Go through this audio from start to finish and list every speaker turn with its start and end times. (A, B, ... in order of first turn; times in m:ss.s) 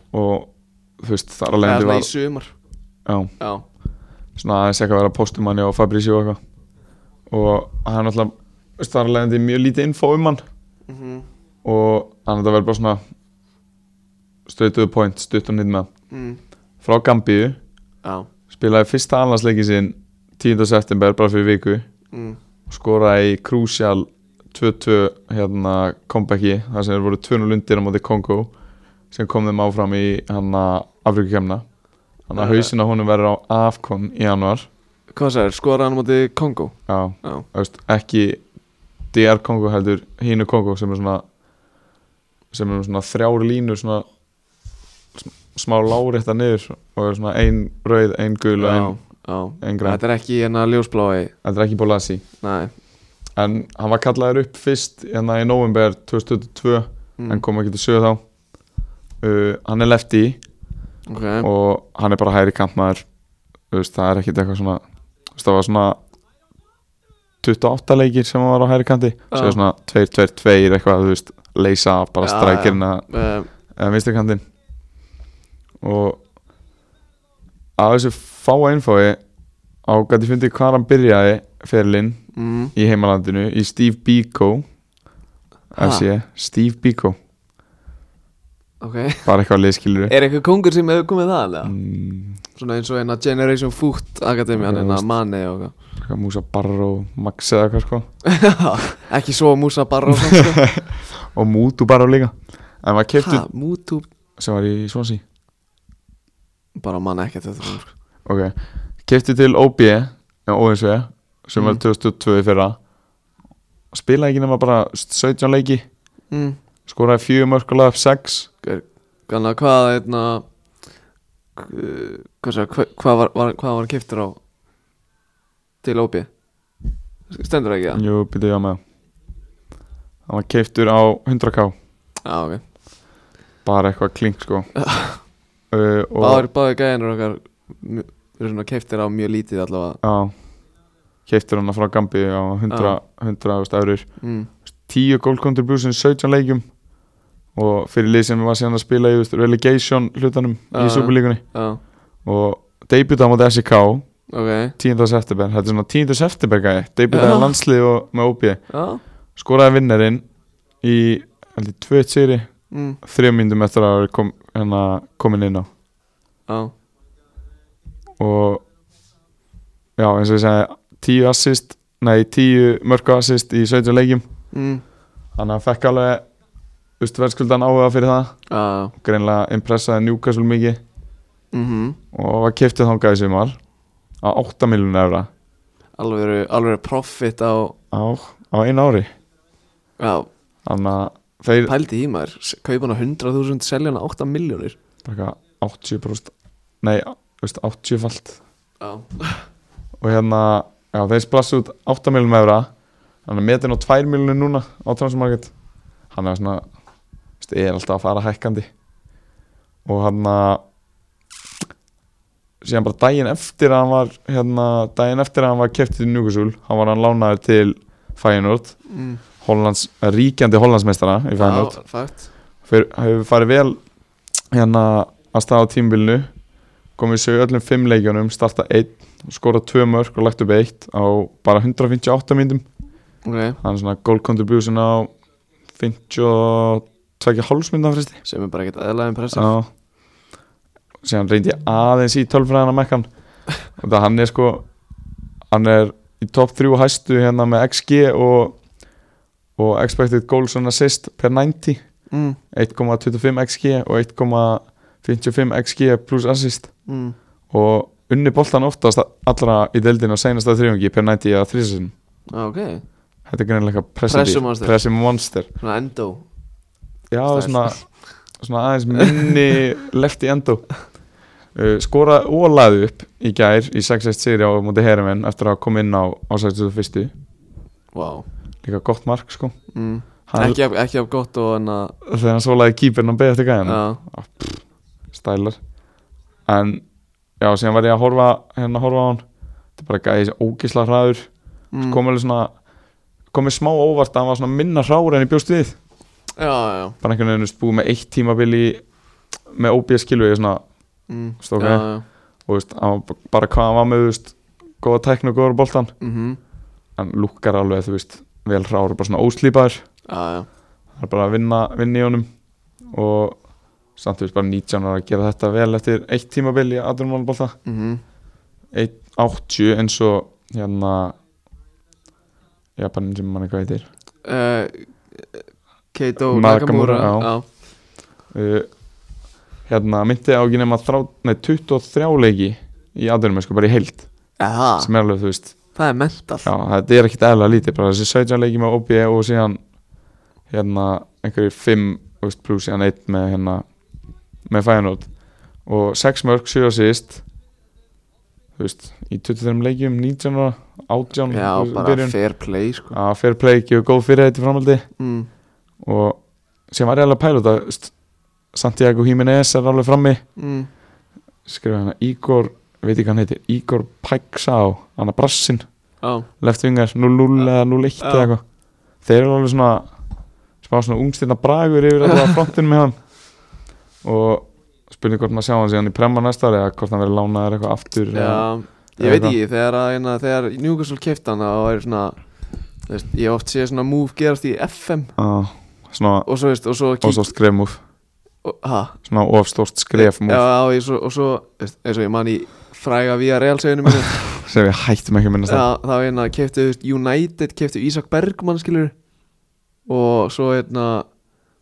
0:00.1-0:02.1 A
0:01.6-0:02.5 B
0:03.0-0:03.3 A
0:03.4-0:03.6 B
0:04.4-0:06.4 A
0:07.3-0:10.4 A
0:10.9-0:11.3 B
0:11.6-0:13.0 A
0:14.4-0:15.9 A
0:16.1-0:16.4 B
0:16.8-0:17.6 A
0:18.5-0:21.8 A
0:22.1-0:22.4 B
0:22.7-0:28.5 A
0:29.1-0:31.6 A
0:32.3-0:34.7 A
0:32.4-0:32.7 B
0:35.1-0:37.4 B
0:36.9-0:38.4 A
0:39.1-0:41.2 A
0:42.5-0:44.0 A
0:45.2-0:49.0 A
0:48.6-0:51.3 B
0:49.6-0:50.0 A
0:51.4-0:52.2 A
0:52.4-0:52.7 B
0:53.4-0:58.2 A
0:57.2-0:57.4 B
0:59.2-1:00.4 A
1:01.1-1:01.5 B
1:01.4-1:03.0 A
1:03.7-1:04.8 A
1:05.3-1:06.0 A
1:07.4-1:13.0 A
1:09.3-1:09.6 B
1:12.2-1:13.5 B
1:13.7-1:14.4 A
1:15.8-1:16.2 A
1:17.8-1:19.2 A
1:19.8-1:22.2 A
1:22.3-1:22.7 B
1:22.7-1:24.6 A
1:25.7-1:27.2 A
1:25.8-1:26.0 B
1:28.8-1:29.3 B
1:29.2-1:30.1 A
1:30.1-1:31.7 B
1:31.6-1:32.4 A
1:32.6-1:35.7 B
1:34.6-1:35.0 A
1:36.0-1:38.1 A
1:38.2-1:40.6 B
1:40.2-1:43.4 A
1:43.2-1:44.0 B
1:44.4-1:45.2 A
1:46.8-1:47.9 B
1:48.2-1:52.8 A
1:53.9-1:55.8 A
1:56.3-1:56.6 B
1:56.9-1:58.5 A
1:58.6-2:00.4 B
2:01.6-2:04.4 B
2:05.8-2:06.3 B
2:07.3-2:08.0 B
2:07.9-2:08.8 A
2:10.3-2:11.7 A
2:12.2-2:12.6 B
2:13.6-2:14.7 A
2:14.8-2:15.2 B
2:15.7-2:16.4 A
2:16.2-2:20.0 B
2:20.0-2:20.3 A
2:21.3-2:24.1 A
2:22.7-2:23.0 B
2:24.2-2:24.5 B
2:24.7-2:26.7 A
2:27.5-2:31.4 A
2:30.7-2:31.8 B
2:32.2-2:34.0 A
2:34.3-2:34.7 B
2:34.8-2:38.6 A
2:37.1-2:37.6 B
2:38.7-2:39.0 B
2:39.4-2:40.2 A
2:40.8-2:42.5 A
2:42.7-2:43.0 B
2:43.0-2:45.7 A
2:46.5-2:46.7 B
2:48.2-2:48.6 A
2:50.0-2:54.3 A
2:54.5-2:54.8 B
2:55.3-2:56.2 A
2:57.0-2:58.4 A
2:58.5-2:58.9 B
2:59.0-3:00.8 A
3:01.5-3:02.0 B
3:02.1-3:03.6 A
3:04.2-3:05.3 A
3:06.0-3:07.7 B
3:07.9-3:09.1 A
3:10.0-3:10.3 B
3:10.6-3:11.7 A
3:11.6-3:14.8 B
3:15.0-3:18.4 A
3:18.8-3:19.4 B
3:20.0-3:22.7 A
3:23.2-3:25.5 A
3:26.1-3:26.6 A
3:27.4-3:28.7 A
3:29.8-3:30.6 A
3:32.6-3:38.8 A
3:38.9-3:39.2 B
3:39.4-3:41.8 A
3:41.4-3:42.3 B
3:42.6-3:43.8 A
3:44.5-3:46.3 A
3:47.0-3:52.6 A
3:53.2-3:53.6 B
3:53.6-3:55.1 A
3:55.8-3:58.2 A
3:58.2-3:59.5 B
3:59.3-3:59.7 A
4:01.0-4:03.1 A
4:03.6-4:04.7 A
4:05.5-4:08.6 A
4:09.6-4:11.8 A
4:12.1-4:12.4 B
4:12.5-4:16.7 A
4:16.9-4:17.2 B
4:17.5-4:21.9 A
4:22.3-4:22.8 B
4:23.2-4:25.5 A
4:24.1-4:24.8 B
4:25.6-4:26.2 B
4:27.1-4:30.8 A
4:27.3-4:27.9 B
4:29.0-4:29.3 B
4:31.5-4:37.1 A
4:37.9-4:38.3 B
4:38.6-4:39.5 A
4:39.7-4:41.9 B
4:40.3-4:40.6 A
4:42.0-4:45.6 A
4:43.6-4:44.0 B
4:46.4-4:46.8 A
4:47.4-4:49.2 A
4:49.8-4:51.3 A
4:51.7-4:52.0 B
4:51.8-4:52.5 A
4:53.3-4:55.8 A
4:56.4-4:57.0 B
4:57.0-4:58.8 A
4:59.5-5:00.6 A
5:01.1-5:02.0 B
5:01.4-5:01.9 A
5:02.5-5:05.9 A
5:06.0-5:06.4 B
5:07.0-5:09.8 A
5:10.1-5:10.5 B
5:11.0-5:12.3 A
5:12.9-5:13.4 A
5:14.0-5:17.6 A
5:17.6-5:18.0 B
5:18.7-5:21.2 A
5:22.8-5:23.9 A
5:24.2-5:27.4 B
5:26.2-5:27.3 A
5:28.3-5:28.7 A
5:29.7-5:34.1 A
5:34.4-5:34.9 B
5:34.8-5:35.5 A
5:35.7-5:36.5 B
5:36.4-5:39.6 A
5:40.5-5:43.6 A
5:44.5-5:45.1 A
5:45.6-5:47.2 A
5:48.6-5:52.2 A
5:51.3-5:53.0 B
5:52.9-5:54.9 A
5:55.0-5:55.3 B
5:55.8-5:57.9 A
5:58.5-6:00.2 A
6:00.4-6:00.7 B
6:01.4-6:05.7 A
6:06.0-6:06.3 B
6:06.4-6:08.4 A
6:08.0-6:08.3 B
6:09.0-6:09.9 A
6:10.6-6:13.0 A
6:14.0-6:19.4 A
6:18.1-6:22.2 B
6:22.9-6:25.1 B
6:25.2-6:26.3 A
6:26.2-6:27.3 B
6:27.0-6:27.8 A
6:28.4-6:29.0 B
6:29.0-6:30.4 A
6:29.9-6:34.2 B
6:34.2-6:35.6 A
6:35.4-6:38.9 B
6:39.9-6:41.1 B